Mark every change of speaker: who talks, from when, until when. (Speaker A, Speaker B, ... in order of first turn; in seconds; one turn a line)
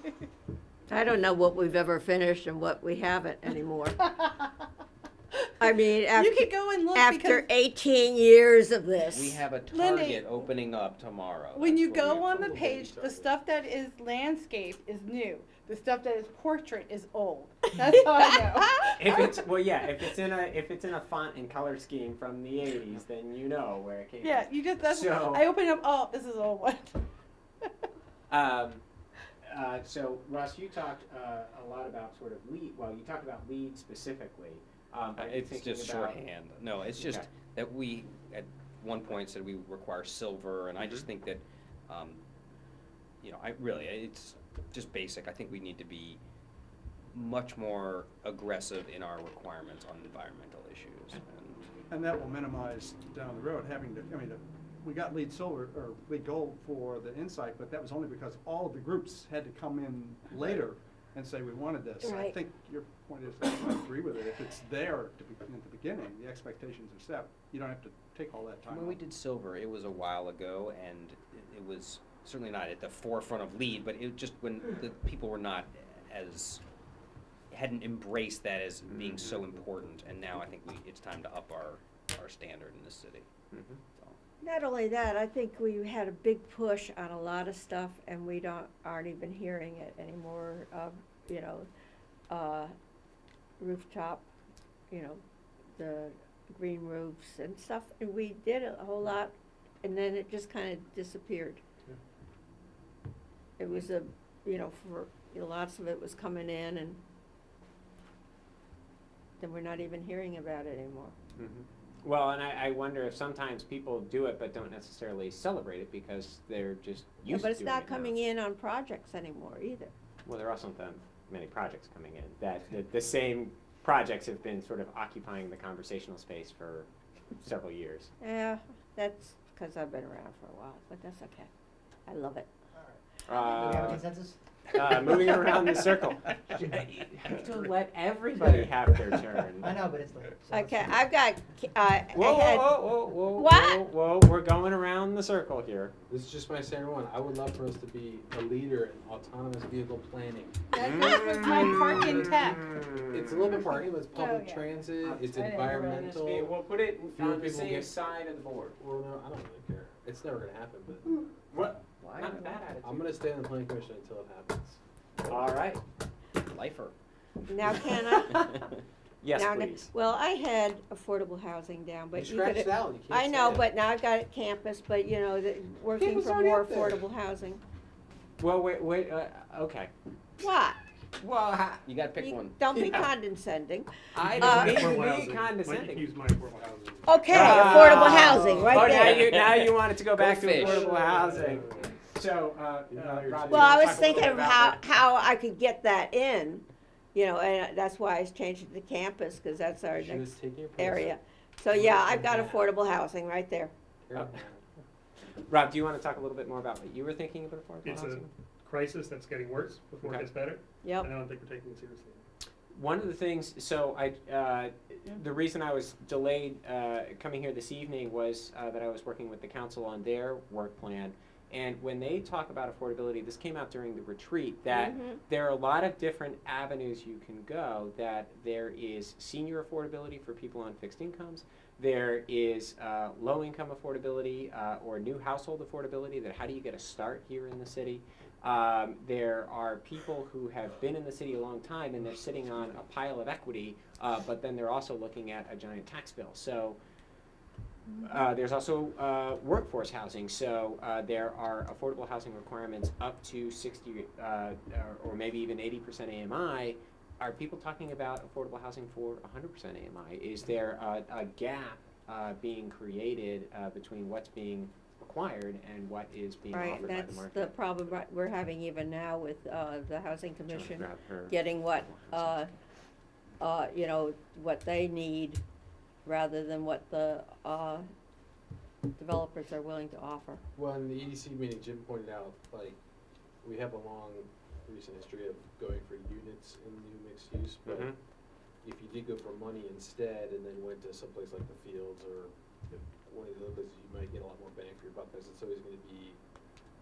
Speaker A: 0.9-4.0
Speaker A: 5.6-9.4
Speaker B: 6.1-7.5
Speaker C: 9.1-12.5
Speaker B: 9.7-10.4
Speaker B: 11.5-19.1
Speaker D: 12.1-13.3
Speaker E: 18.9-25.5
Speaker B: 24.2-27.0
Speaker E: 28.3-28.8
Speaker E: 29.4-36.3
Speaker C: 35.2-42.2
Speaker E: 36.9-37.3
Speaker C: 43.2-46.2
Speaker C: 47.1-51.7
Speaker F: 51.9-69.0
Speaker A: 62.0-62.3
Speaker C: 68.7-76.6
Speaker C: 77.5-83.3
Speaker E: 78.9-79.3
Speaker E: 83.5-83.8
Speaker A: 84.4-91.7
Speaker A: 92.3-92.7
Speaker A: 93.6-94.2
Speaker A: 94.9-95.2
Speaker A: 95.8-101.6
Speaker A: 103.6-107.0
Speaker A: 109.4-111.1
Speaker E: 111.4-118.1
Speaker A: 117.2-119.9
Speaker E: 120.2-126.9
Speaker E: 127.4-128.1
Speaker A: 128.2-131.5
Speaker A: 132.1-132.5
Speaker G: 132.8-135.5
Speaker E: 133.2-134.0
Speaker E: 134.7-139.8
Speaker G: 139.6-140.9
Speaker A: 140.5-142.7
Speaker E: 142.1-145.9
Speaker A: 143.3-143.8
Speaker D: 146.1-150.6
Speaker B: 150.7-152.7
Speaker E: 150.8-152.1
Speaker D: 151.9-156.6
Speaker E: 152.9-153.4
Speaker B: 154.1-156.0
Speaker E: 155.0-158.8
Speaker D: 157.1-158.0
Speaker D: 158.8-161.1
Speaker E: 161.4-163.3
Speaker C: 162.0-162.6
Speaker D: 162.8-164.8
Speaker E: 165.2-165.8
Speaker C: 166.4-166.9
Speaker A: 167.5-168.5
Speaker E: 168.3-168.6
Speaker E: 169.2-169.9
Speaker A: 169.3-177.6
Speaker D: 172.1-173.7
Speaker D: 175.9-177.0
Speaker E: 178.4-179.9
Speaker A: 180.4-180.8
Speaker E: 181.2-181.8
Speaker C: 181.8-183.1
Speaker A: 182.2-184.9
Speaker E: 182.7-183.0
Speaker E: 184.1-186.1
Speaker H: 184.3-188.0
Speaker A: 187.1-189.4
Speaker E: 187.3-194.8
Speaker C: 187.9-190.9
Speaker H: 190.6-191.8
Speaker D: 192.9-194.3
Speaker A: 193.5-203.7
Speaker D: 199.9-201.2
Speaker D: 201.7-202.7
Speaker D: 204.0-204.6
Speaker E: 204.1-204.4
Speaker E: 205.4-208.3
Speaker H: 207.8-212.2
Speaker E: 210.0-210.3
Speaker A: 210.8-211.1
Speaker E: 212.7-246.8
Speaker A: 224.7-225.2
Speaker E: 248.0-267.6
Speaker A: 266.5-272.5
Speaker E: 270.5-272.4
Speaker A: 273.4-275.4
Speaker A: 276.0-277.8
Speaker A: 279.0-280.4
Speaker D: 280.5-282.8
Speaker D: 283.4-287.9
Speaker E: 287.6-287.9
Speaker D: 288.6-296.2